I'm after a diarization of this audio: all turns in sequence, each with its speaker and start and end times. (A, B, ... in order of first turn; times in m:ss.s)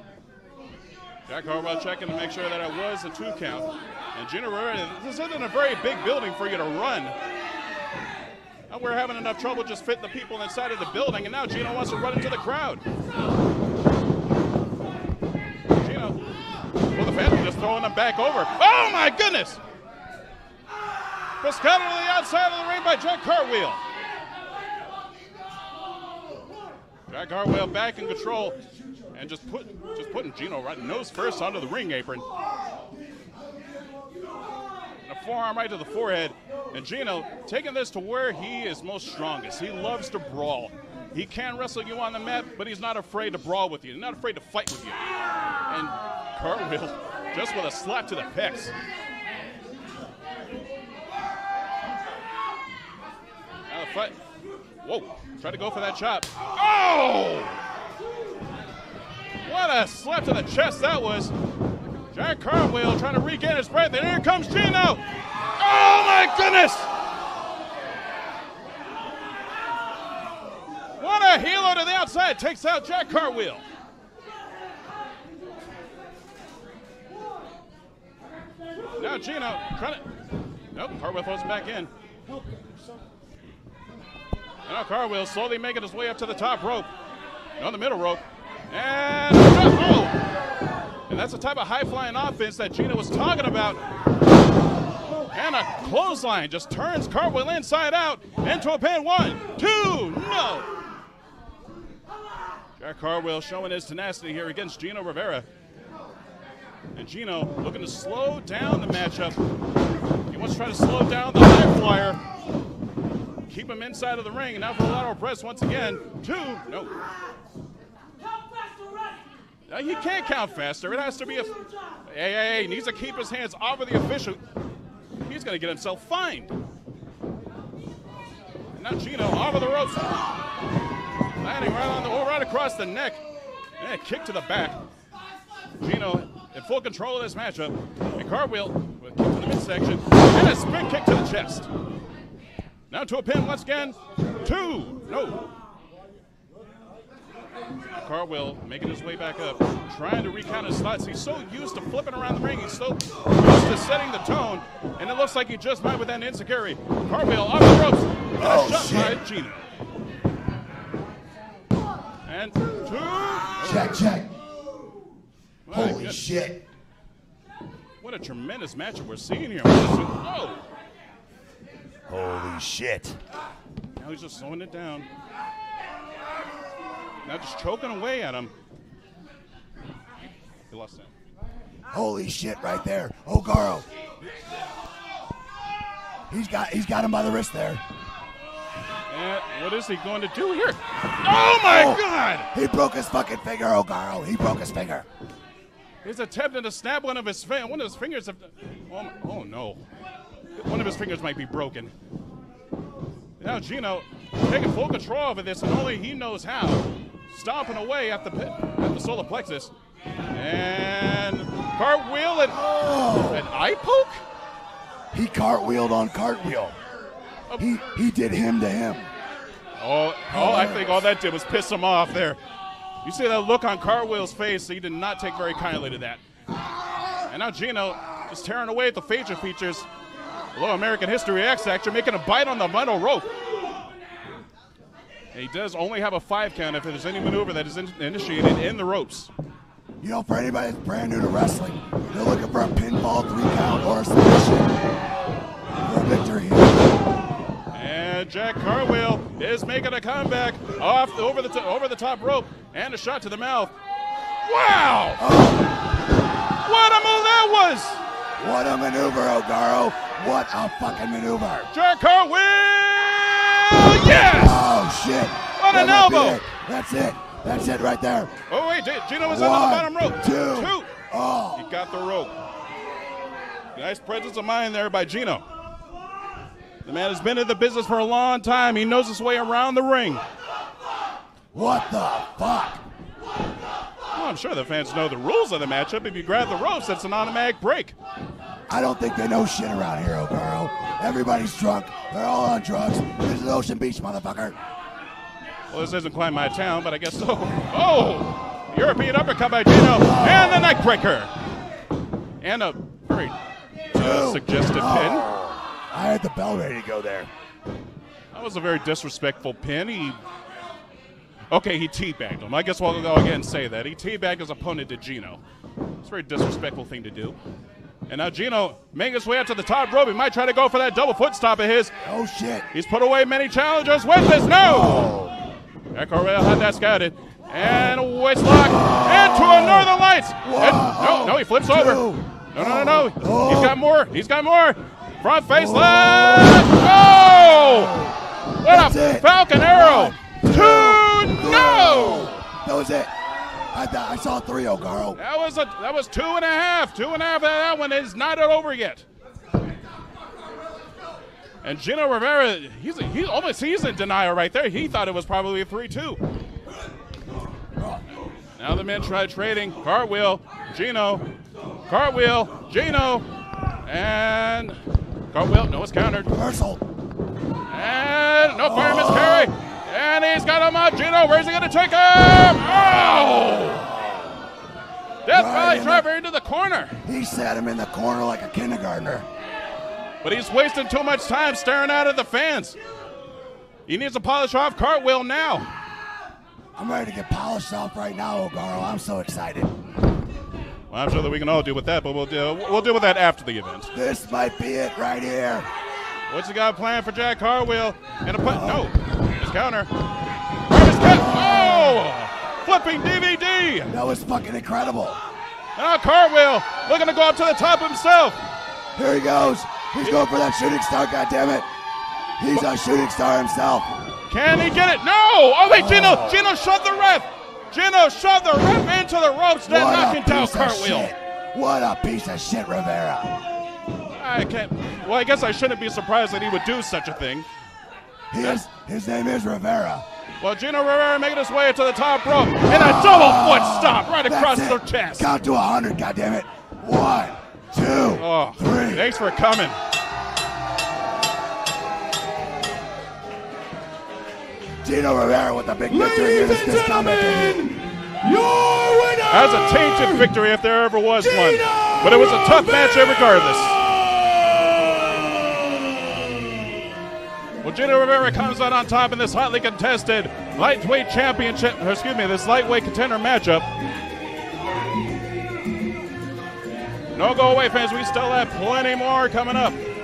0:01.3-0:07.2 A
0:08.7-0:12.8 A
0:15.8-0:16.2 A
0:16.9-0:19.6 A
0:21.4-0:23.8 A
0:27.1-0:28.6 A
0:29.1-0:32.3 A
0:35.0-0:45.0 A
0:45.7-0:48.7 A
0:53.7-0:54.2 A
0:54.8-0:57.6 A
0:59.4-1:01.3 A
1:02.1-1:05.0 A
1:05.6-1:06.9 A
1:11.0-1:13.6 A
1:19.0-1:20.0 A
1:20.7-1:21.9 A
1:24.7-1:26.9 A
1:27.6-1:30.2 A
1:31.1-1:33.8 A
1:35.3-1:40.7 A
1:42.8-1:45.5 A
1:47.0-1:49.4 A
1:50.3-1:52.2 A
1:53.5-1:57.0 A
1:59.7-2:01.5 A
2:02.1-2:04.4 A
2:05.2-2:06.5 A
2:08.8-2:10.2 A
2:11.4-2:13.2 A
2:13.8-2:14.8 A
2:15.8-2:21.7 A
2:22.9-2:25.5 A
2:28.0-2:39.7 A
2:38.4-2:39.2 B
2:42.3-2:44.1 A
2:43.6-2:44.3 B
2:45.7-2:46.2 A
2:45.7-2:46.6 B
2:48.0-2:50.6 A
2:52.1-2:53.2 B
2:54.0-2:55.1 A
2:57.2-2:58.5 A
3:00.7-3:01.1 A
3:01.9-3:03.9 B
3:06.3-3:07.8 B
3:09.1-3:12.5 A
3:11.6-3:15.1 B
3:16.0-3:19.8 A
3:20.6-3:21.9 A
3:23.4-3:29.7 A
3:30.3-3:32.6 A
3:32.5-3:33.5 B
3:33.3-3:34.2 A
3:35.1-3:36.8 B
3:37.5-3:37.8 A
3:37.6-3:39.1 B
3:39.8-3:42.4 A
3:40.3-3:41.0 B
3:43.0-3:46.2 A
3:47.3-3:49.9 A
3:50.5-3:53.3 A
3:55.3-3:59.3 A
4:00.0-4:04.7 B
4:05.8-4:07.0 B
4:07.7-4:13.7 A
4:14.4-4:15.2 A
4:15.2-4:15.7 B
4:16.6-4:18.0 A
4:18.4-4:21.7 B
4:21.7-4:24.7 A
4:24.2-4:28.3 B
4:25.6-4:26.4 A
4:28.5-4:30.9 A
4:29.2-4:31.7 B
4:31.6-4:32.4 A
4:33.8-4:35.4 A
4:36.8-4:40.2 A
4:41.5-4:42.8 B
4:44.1-4:48.0 A
4:48.7-4:54.6 B
4:55.7-5:01.3 A
4:59.9-5:00.8 B
5:02.4-5:03.4 A
5:03.9-5:05.3 A
5:03.9-5:07.3 B
5:08.3-5:10.2 A
5:11.5-5:15.4 A
5:16.0-5:17.4 A
5:18.1-5:21.9 A
5:22.0-5:22.7 B
5:22.7-5:25.1 A
5:24.6-5:25.4 B
5:25.9-5:38.1 A
5:27.6-5:27.9 B
5:28.5-5:33.8 B
5:35.5-5:38.1 B
5:38.6-5:42.4 A
5:38.6-5:43.1 B
5:43.7-5:45.2 B
5:45.2-5:49.0 A
5:51.6-5:56.2 A
5:57.8-5:58.0 B
5:58.6-6:01.2 A
6:01.9-6:03.2 A
6:03.8-6:04.8 A
6:05.3-6:06.3 A
6:06.3-6:06.8 B
6:07.7-6:13.9 A
6:08.6-6:09.5 B
6:15.2-6:17.0 A
6:15.3-6:16.1 B
6:17.0-6:19.3 B
6:20.2-6:22.8 A
6:23.9-6:25.7 A
6:26.8-6:29.7 B
6:30.9-6:33.9 A
6:33.9-6:35.7 B
6:36.3-6:39.9 A
6:38.4-6:38.9 B
6:40.7-6:44.0 A
6:41.1-6:42.0 B
6:43.9-6:45.2 B
6:45.8-6:48.4 A
6:49.0-6:51.7 B
6:52.4-6:53.9 B
6:54.3-7:01.1 A
6:55.7-6:56.4 B
6:59.7-7:03.3 B
7:04.1-7:07.5 A
7:08.3-7:10.1 B
7:10.4-7:15.3 A
7:12.7-7:19.1 B
7:18.2-7:19.8 A
7:24.8-7:27.7 B
7:25.9-7:27.7 C
7:28.3-7:29.2 C
7:29.0-7:29.6 B
7:29.3-7:33.9 A
7:31.6-7:31.9 C
7:32.0-7:35.3 B
7:37.6-7:43.7 A
7:47.1-7:49.8 A